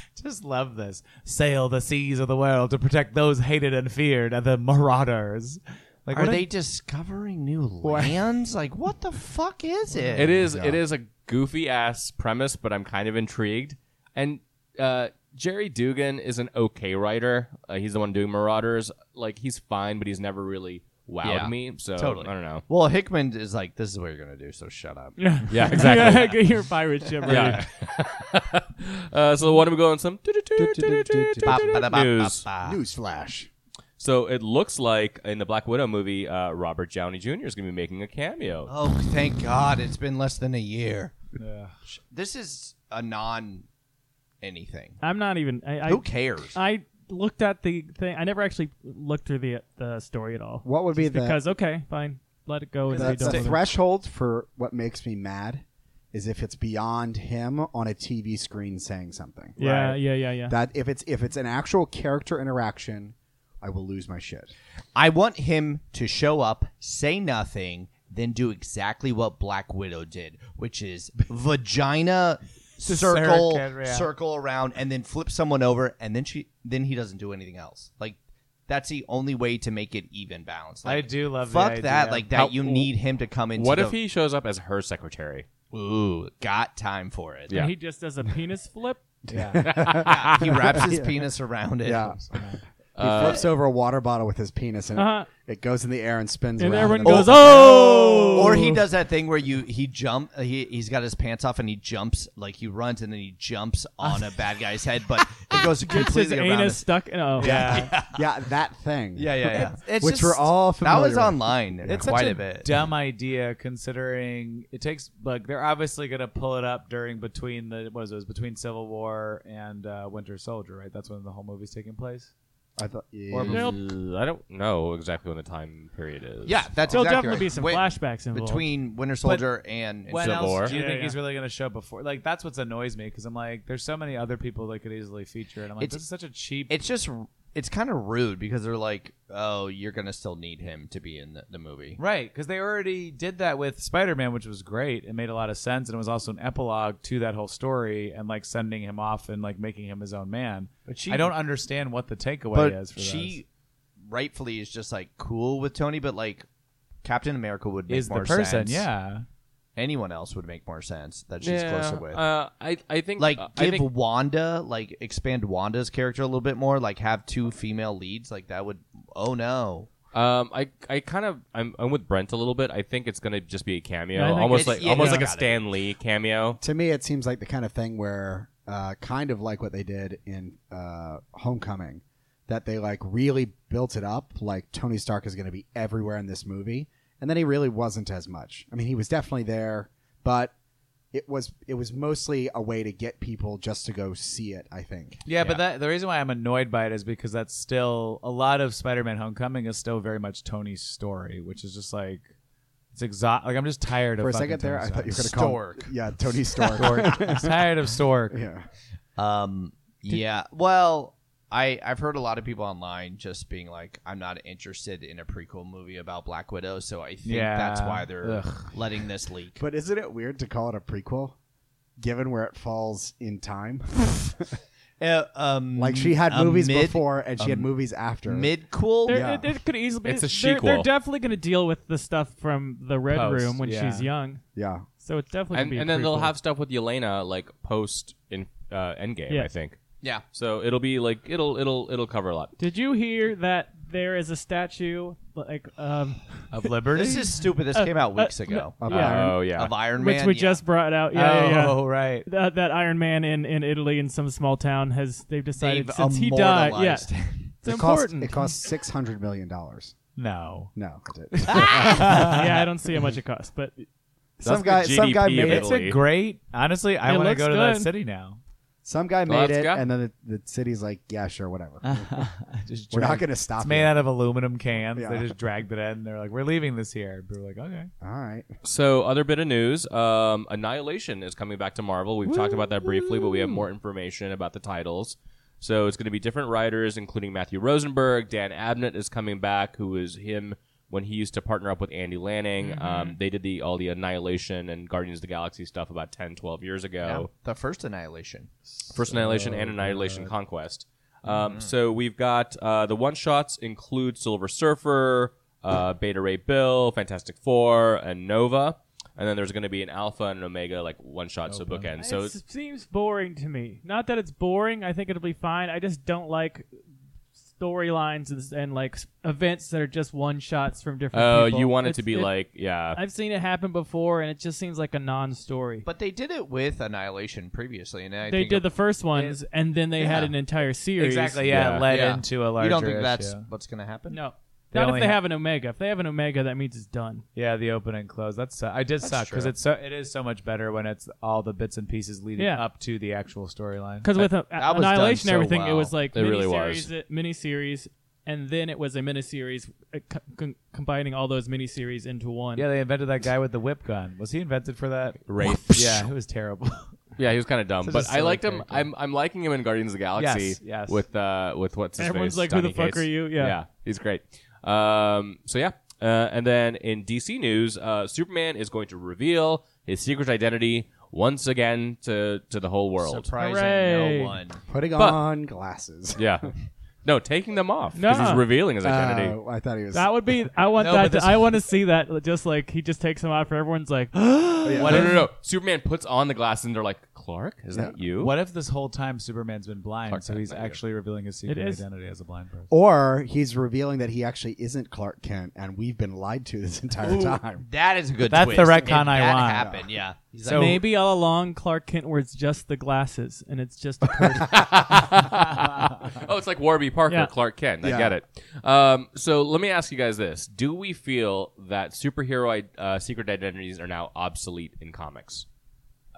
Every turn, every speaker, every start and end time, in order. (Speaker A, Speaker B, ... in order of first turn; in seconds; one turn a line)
Speaker A: 0.2-6.5
Speaker B: 6.1-10.4
Speaker A: 7.8-8.2
Speaker C: 10.2-22.6
Speaker D: 10.3-10.8
Speaker B: 21.2-26.0
Speaker E: 25.2-27.7
Speaker C: 25.5-26.4
Speaker B: 27.2-27.5
Speaker C: 27.2-32.5
Speaker D: 30.6-31.9
Speaker B: 31.4-32.8
Speaker D: 32.6-33.5
Speaker C: 34.0-38.7
Speaker B: 38.7-41.2
Speaker A: 41.4-41.7
Speaker B: 41.9-43.7
Speaker B: 44.4-45.0
Speaker E: 45.0-53.6
Speaker B: 45.9-46.6
Speaker D: 50.6-51.4
Speaker A: 52.9-53.6
Speaker D: 52.9-64.5
Speaker E: 59.6-60.6
Speaker A: 59.6-60.0
Speaker B: 65.0-84.0
Speaker A: 72.8-74.1
Speaker A: 80.8-82.4
Speaker C: 82.3-82.9
Speaker C: 83.5-85.5
Speaker B: 85.7-87.6
Speaker E: 87.5-89.0
Speaker D: 89.3-91.2
Speaker A: 89.3-89.7
Speaker C: 89.6-90.7
Speaker B: 90.0-92.2
Speaker D: 91.8-98.4
Speaker C: 93.0-93.5
Speaker E: 95.0-95.3
Speaker E: 96.6-98.8
Speaker B: 97.0-108.2
Speaker A: 97.8-98.7
Speaker A: 104.0-104.3
Speaker E: 105.5-107.6
Speaker A: 107.4-107.9
Speaker D: 107.4-112.2
Speaker B: 109.2-112.8
Speaker A: 109.5-110.2
Speaker A: 111.9-122.3
Speaker D: 122.8-123.7
Speaker A: 123.3-123.7
Speaker C: 123.5-126.9
Speaker E: 123.5-123.8
Speaker B: 126.5-130.8
Speaker E: 126.9-128.7
Speaker A: 130.1-136.7
Speaker C: 130.2-130.7
Speaker E: 130.7-131.2
Speaker B: 135.8-136.0
Speaker B: 136.7-142.0
Speaker A: 142.0-153.4
Speaker B: 150.9-151.4
Speaker B: 152.5-153.5
Speaker B: 154.1-156.5
Speaker B: 157.0-158.9
Speaker A: 157.9-159.3
Speaker B: 159.8-162.2
Speaker C: 161.4-163.9
Speaker B: 163.2-169.9
Speaker C: 170.1-176.6
Speaker E: 174.2-175.3
Speaker B: 174.5-175.6
Speaker D: 176.6-190.5
Speaker D: 191.1-195.2
Speaker A: 195.3-202.3
Speaker A: 202.9-205.4
Speaker D: 204.2-207.7
Speaker B: 205.2-205.9
Speaker A: 206.8-208.4
Speaker D: 208.3-208.7
Speaker B: 209.2-219.6
Speaker A: 217.2-218.8
Speaker D: 219.6-221.4
Speaker D: 222.0-224.5
Speaker B: 225.0-227.7
Speaker D: 225.8-228.5
Speaker B: 228.3-229.2
Speaker E: 229.1-234.4
Speaker D: 229.1-229.6
Speaker C: 230.0-230.9
Speaker A: 233.1-234.1
Speaker D: 234.6-234.9
Speaker E: 235.0-236.3
Speaker C: 235.5-239.8
Speaker C: 240.3-242.6
Speaker E: 242.6-246.8
Speaker A: 246.5-247.3
Speaker B: 246.9-250.6
Speaker E: 247.7-249.2
Speaker D: 248.8-249.4
Speaker C: 248.9-249.8
Speaker E: 249.8-257.1
Speaker A: 251.1-252.3
Speaker B: 255.6-257.6
Speaker E: 257.6-258.6
Speaker D: 257.6-260.0
Speaker A: 260.2-260.7
Speaker D: 260.8-262.3
Speaker A: 261.3-262.5
Speaker E: 262.1-263.8
Speaker D: 264.4-265.8
Speaker C: 264.4-266.0
Speaker A: 265.5-268.4
Speaker E: 267.0-267.9
Speaker D: 268.9-272.2
Speaker C: 269.3-269.9
Speaker A: 271.8-277.9
Speaker D: 272.9-274.0
Speaker D: 274.9-275.3
Speaker D: 278.0-278.5
Speaker C: 278.6-297.3
Speaker A: 282.3-283.6
Speaker E: 292.6-293.2
Speaker B: 297.0-298.5
Speaker A: 298.8-300.3
Speaker C: 298.9-312.4
Speaker B: 301.3-301.7
Speaker A: 311.5-311.9
Speaker E: 312.0-316.7
Speaker E: 317.5-322.4
Speaker C: 321.1-323.0
Speaker E: 322.9-325.9
Speaker B: 325.9-328.7
Speaker E: 328.3-331.5
Speaker B: 330.0-330.3
Speaker A: 331.0-333.5
Speaker C: 331.5-331.9
Speaker B: 331.9-334.2
Speaker E: 334.1-337.2
Speaker A: 334.7-335.2
Speaker A: 337.4-344.1
Speaker B: 339.0-339.5
Speaker E: 342.4-342.6
Speaker E: 344.0-352.7
Speaker B: 344.6-345.9
Speaker C: 346.1-346.9
Speaker A: 352.6-357.0
Speaker C: 355.3-356.1
Speaker C: 357.2-373.3
Speaker A: 357.8-358.9
Speaker A: 360.2-361.0
Speaker E: 362.0-363.6
Speaker B: 373.0-374.6
Speaker E: 373.4-374.4
Speaker D: 374.7-376.5
Speaker C: 376.2-376.5
Speaker C: 377.1-379.4
Speaker E: 377.9-378.4
Speaker D: 378.8-380.1
Speaker E: 379.9-385.1
Speaker A: 380.8-381.6
Speaker D: 384.6-385.1
Speaker A: 384.8-385.2
Speaker C: 384.8-388.3
Speaker A: 388.2-392.7
Speaker C: 390.1-390.8
Speaker E: 391.5-391.8
Speaker D: 392.7-397.6
Speaker B: 397.0-400.9
Speaker A: 398.3-399.7
Speaker D: 399.6-399.9
Speaker A: 400.4-400.8
Speaker E: 400.5-404.7
Speaker C: 404.4-415.5
Speaker D: 407.8-408.2